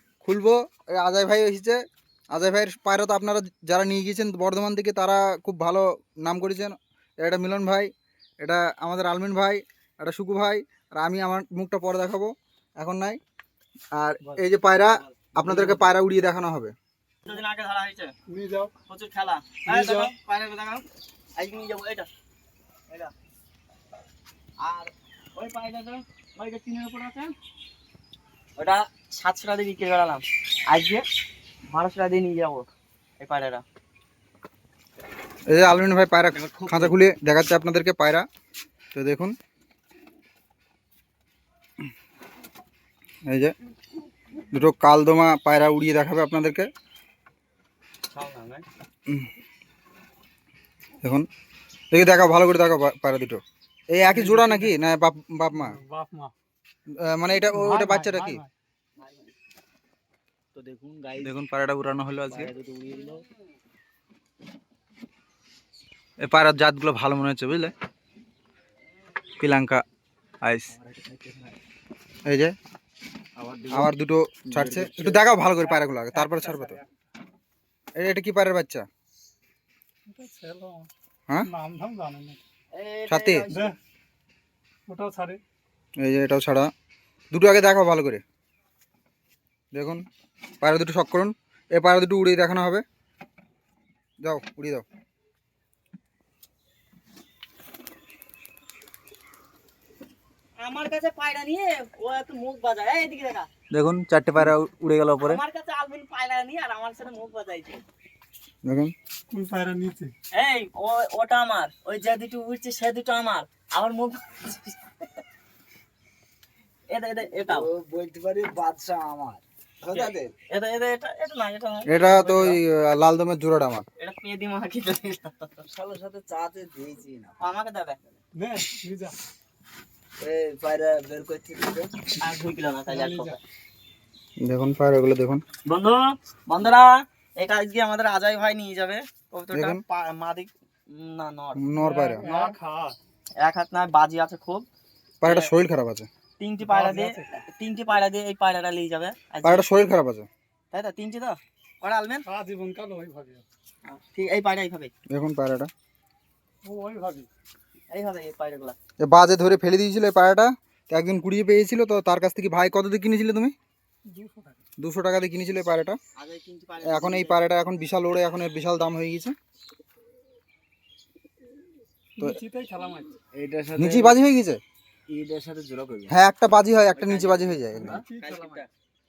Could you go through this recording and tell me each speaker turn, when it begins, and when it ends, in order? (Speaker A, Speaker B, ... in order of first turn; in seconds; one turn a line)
Speaker A: 0.2-13.2
Speaker A: 13.9-16.7
Speaker B: 14.8-15.2
Speaker C: 15.5-15.9
Speaker B: 17.3-18.1
Speaker C: 18.3-18.7
Speaker B: 18.9-20.8
Speaker C: 19.6-20.1
Speaker B: 21.4-22.1
Speaker B: 22.9-23.1
Speaker B: 24.6-27.3
Speaker B: 28.6-31.1
Speaker B: 31.7-32.7
Speaker B: 33.2-33.6
Speaker A: 35.5-38.3
Speaker B: 36.4-37.0
Speaker A: 38.9-39.4
Speaker A: 43.3-43.5
Speaker A: 44.5-46.7
Speaker B: 48.1-48.7
Speaker A: 51.9-55.8
Speaker C: 54.1-54.7
Speaker C: 55.5-56.3
Speaker A: 57.0-58.4
Speaker C: 57.5-58.5
Speaker B: 59.0-59.3
Speaker D: 60.5-61.4
Speaker A: 61.2-62.5
Speaker D: 62.3-63.2
Speaker B: 62.9-63.5
Speaker A: 66.2-67.7
Speaker A: 69.4-69.8
Speaker A: 70.4-70.7
Speaker D: 70.7-71.6
Speaker A: 72.3-72.5
Speaker D: 73.4-74.0
Speaker A: 73.7-76.8
Speaker D: 74.5-75.2
Speaker C: 75.6-76.9
Speaker A: 78.0-78.9
Speaker C: 80.1-80.9
Speaker C: 81.5-82.4
Speaker B: 82.7-83.8
Speaker A: 83.1-83.5
Speaker C: 83.5-83.8
Speaker C: 84.9-85.4
Speaker A: 86.0-86.7
Speaker A: 87.3-88.2
Speaker A: 89.7-90.0
Speaker A: 90.6-92.8
Speaker A: 94.2-94.8
Speaker B: 100.6-103.5
Speaker A: 103.7-105.4
Speaker B: 105.2-107.8
Speaker A: 108.7-108.9
Speaker C: 109.3-110.1
Speaker B: 110.3-115.2
Speaker B: 116.9-117.7
Speaker D: 117.4-120.3
Speaker B: 119.9-122.6
Speaker A: 121.9-123.9
Speaker B: 124.0-125.7
Speaker D: 125.7-127.4
Speaker B: 127.4-128.0
Speaker C: 128.3-129.2
Speaker D: 130.2-131.9
Speaker B: 132.2-133.4
Speaker C: 132.9-133.3
Speaker A: 134.4-135.4
Speaker B: 135.7-141.6
Speaker A: 139.5-139.8
Speaker A: 141.6-142.3
Speaker C: 141.8-143.0
Speaker B: 142.2-142.6
Speaker B: 143.4-144.7
Speaker B: 145.2-145.5
Speaker A: 145.2-146.1
Speaker B: 146.4-149.9
Speaker C: 146.6-147.4
Speaker A: 149.4-150.3
Speaker B: 150.7-152.2
Speaker C: 152.2-153.4
Speaker B: 153.8-154.9
Speaker A: 155.1-155.7
Speaker C: 156.6-157.3
Speaker B: 157.9-158.8
Speaker A: 159.0-163.5
Speaker C: 164.1-164.6
Speaker A: 164.8-166.0
Speaker B: 166.2-167.4
Speaker A: 166.8-169.4
Speaker C: 172.2-173.2
Speaker D: 173.3-174.2
Speaker A: 173.8-174.6
Speaker D: 175.1-176.2
Speaker A: 176.1-178.0
Speaker B: 176.9-177.6
Speaker C: 177.8-178.6
Speaker D: 177.8-178.0
Speaker B: 178.2-178.7